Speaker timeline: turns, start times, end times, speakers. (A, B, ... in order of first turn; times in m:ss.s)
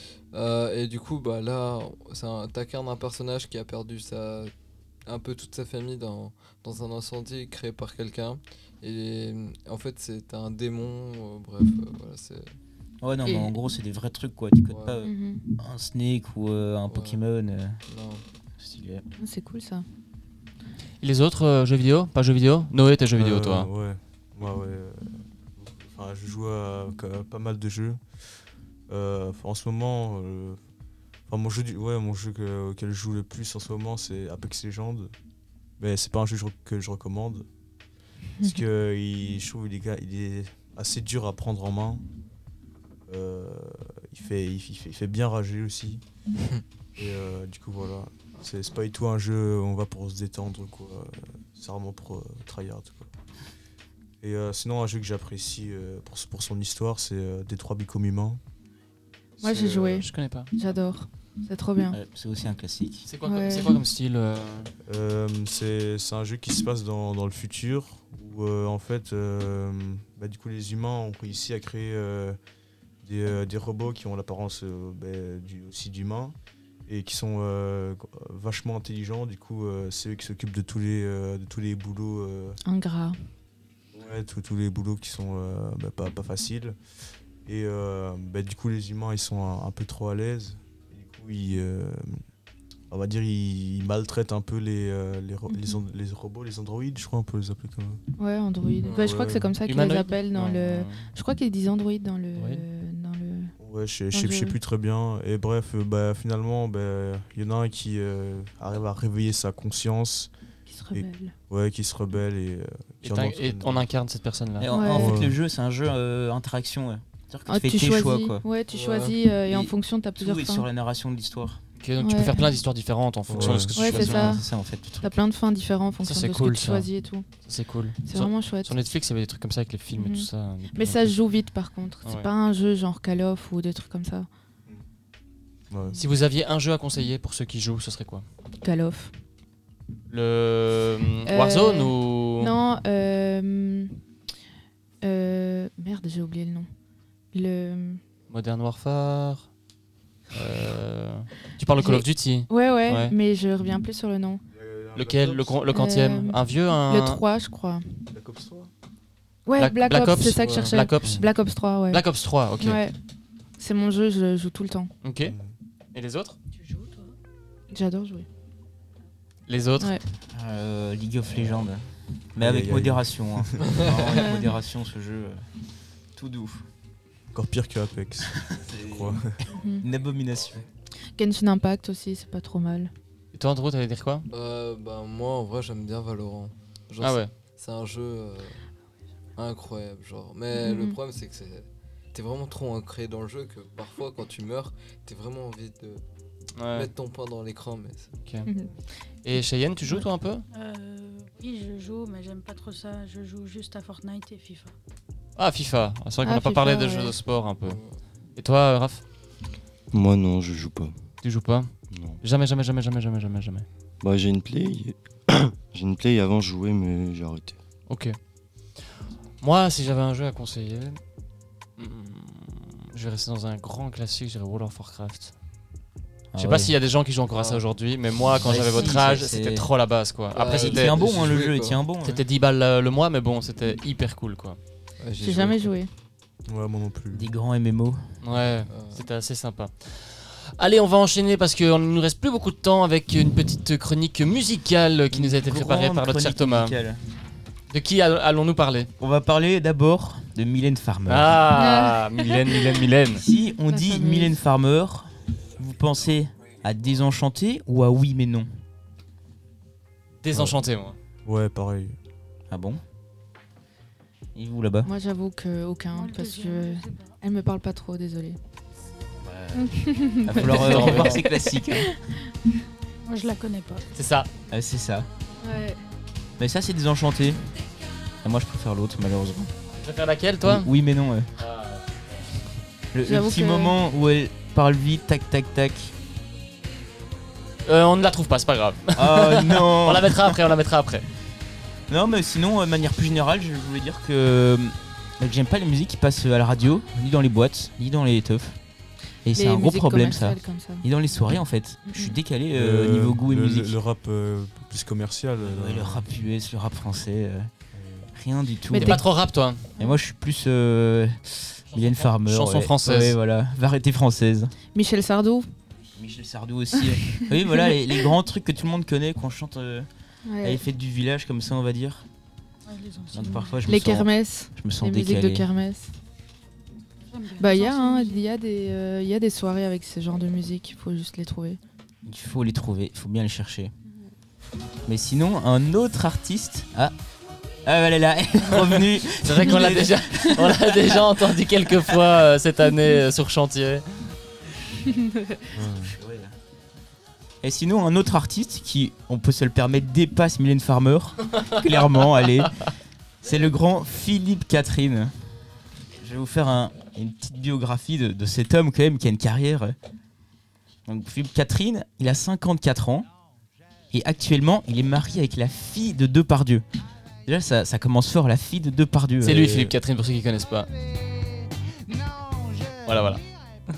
0:00.3-0:04.5 A
0:05.0-0:12.5 A
0:13.0-0:17.8 B
0:13.2-0:13.5 C
0:14.7-0:15.0 A
0:15.0-0:15.4 C
0:16.9-0:17.2 A
0:17.9-0:18.2 A
0:18.6-0:19.0 B
0:19.2-0:19.8 C
0:21.0-0:23.7 D
0:23.2-0:28.0 E
0:28.9-0:30.6 E
0:31.3-0:35.1 E
0:35.8-0:37.4 E
0:38.4-0:42.0 E
0:43.1-0:46.0 E
0:47.0-0:53.1 E
0:54.2-0:58.4 E
0:59.4-1:00.0 E
0:59.4-1:02.0 C
0:59.7-1:00.5 D
1:01.9-1:03.1 B
1:03.0-1:04.7 D
1:03.2-1:03.8 C
1:04.9-1:12.4 E
1:13.0-1:16.3 E
1:16.9-1:22.6 E
1:22.6-1:23.2 C
1:23.9-1:26.8 E
1:27.4-1:32.2 E
1:32.9-1:38.0 E
1:35.5-1:35.8 C
1:38.2-1:43.5 C
1:38.8-1:39.2 A
1:39.0-1:39.5 E
1:39.6-1:41.1 D
1:42.4-1:42.6 D
1:43.6-1:50.3 E
1:44.1-1:44.6 C
1:50.7-1:51.3 C
1:50.9-1:53.8 E
1:53.0-1:54.8 D
1:54.6-1:58.4 B
1:54.7-1:55.1 C
1:54.9-1:55.4 E
1:57.5-2:00.6 C
1:58.7-1:59.2 A
1:59.4-2:01.6 B
2:01.8-2:04.4 D
2:02.0-2:02.5 C
2:03.3-2:03.8 E
2:03.4-2:05.1 B
2:03.8-2:04.4 C
2:05.0-2:07.3 C
2:06.0-2:11.1 D
2:08.0-2:08.8 C
2:09.9-2:14.3 C
2:12.0-2:12.3 D
2:15.7-2:16.0 E
2:15.9-2:18.2 D
2:18.6-2:19.1 C
2:20.1-2:22.5 D
2:21.2-2:24.0 C
2:25.0-2:26.7 C
2:27.3-2:28.0 C
2:28.3-2:29.5 D
2:30.3-2:33.1 D
2:31.8-2:34.4 C
2:34.5-2:35.6 E
2:34.9-2:37.2 D
2:35.7-2:37.8 C
2:38.1-2:38.7 E
2:39.4-2:42.0 C
2:39.6-2:41.2 D
2:41.9-2:42.8 D
2:42.6-2:43.0 C
2:43.6-2:44.9 C
2:45.0-2:45.4 D
2:45.2-2:45.5 E
2:45.9-2:46.4 D
2:46.5-2:47.1 F
2:47.7-2:48.2 C
2:49.5-2:49.9 D
2:50.3-2:51.8 B
2:52.3-2:55.4 B
2:52.4-2:53.8 E
2:54.1-2:54.5 C
2:56.1-2:56.6 B
2:57.3-2:59.4 E
2:58.5-2:59.2 B
2:59.5-2:59.8 C
2:59.8-3:00.6 B
3:01.2-3:02.9 C
3:03.3-3:04.2 D
3:04.3-3:08.6 A
3:07.0-3:07.3 D
3:09.4-3:16.0 A
3:10.5-3:11.0 C
3:16.6-3:16.9 D
3:16.7-3:18.1 A
3:18.2-3:18.5 D
3:18.4-3:18.8 C
3:19.2-3:20.4 D
3:20.5-3:24.7 F
3:25.4-3:27.8 D
3:26.2-3:27.2 C
3:27.6-3:28.0 A
3:28.4-3:29.0 D
3:29.9-3:30.9 G
3:31.2-3:33.6 D
3:31.9-3:32.2 G
3:34.0-3:37.6 G
3:37.9-3:38.2 D
3:39.4-3:41.0 D
3:41.8-3:45.3 D
3:46.3-3:46.7 B
3:46.4-3:51.0 D
3:47.3-3:47.6 A
3:48.4-3:49.7 B
3:50.3-3:51.8 A
3:50.5-3:52.2 B
3:52.0-3:54.6 D
3:55.0-3:55.7 A
3:55.2-3:55.9 C
3:56.5-3:57.2 E
3:57.1-3:58.1 B
3:58.2-4:06.8 D
3:58.7-3:59.0 A
4:05.1-4:07.0 B
4:07.7-4:08.9 D
4:09.0-4:11.4 B
4:11.1-4:13.2 D
4:11.5-4:12.8 C
4:13.1-4:18.5 B
4:13.7-4:14.3 C
4:20.2-4:21.0 D
4:20.3-4:20.6 E
4:21.2-4:22.0 E
4:22.5-4:22.8 B
4:24.3-4:24.9 B
4:24.8-4:28.4 C
4:25.9-4:27.1 F
4:29.2-4:31.9 B
4:29.5-4:31.9 C
4:30.4-4:31.2 D
4:33.0-4:33.8 F
4:33.9-4:34.3 D
4:34.5-4:35.1 B
4:35.4-4:35.8 C
4:36.4-4:37.4 B
4:38.2-4:39.5 B
4:39.8-4:40.7 D
4:40.4-4:41.3 B
4:41.4-4:41.9 D
4:42.9-4:45.9 B
4:43.0-4:43.7 C
4:47.6-4:51.0 D
4:49.0-4:50.4 B
4:51.9-4:58.6 B
4:59.2-5:03.7 B
4:59.4-5:00.8 C
5:01.9-5:02.2 C
5:02.5-5:06.0 E
5:05.4-5:07.5 B
5:07.7-5:08.1 E
5:08.1-5:09.0 B
5:08.7-5:09.0 C
5:08.7-5:09.7 D
5:09.8-5:14.5 B
5:11.8-5:13.2 D
5:14.7-5:15.5 C
5:15.9-5:19.9 B
5:17.2-5:17.8 C
5:20.2-5:20.6 C
5:20.4-5:22.0 B
5:22.6-5:23.6 F
5:23.1-5:25.5 B
5:23.6-5:25.9 C
5:27.1-5:28.2 F
5:27.4-5:31.6 C
5:32.0-5:33.7 B
5:33.8-5:34.1 F
5:34.8-5:36.9 B
5:37.6-5:41.2 B
5:38.5-5:43.8 D
5:44.9-5:45.4 C
5:45.5-5:45.9 E
5:45.6-5:46.3 B
5:47.4-5:52.5 B
5:53.2-5:55.1 B
5:56.0-5:59.8 B
6:00.8-6:03.1 B
6:03.9-6:06.6 B
6:07.2-6:09.5 B
6:09.2-6:10.7 D
6:09.3-6:09.7 E
6:12.8-6:13.2 D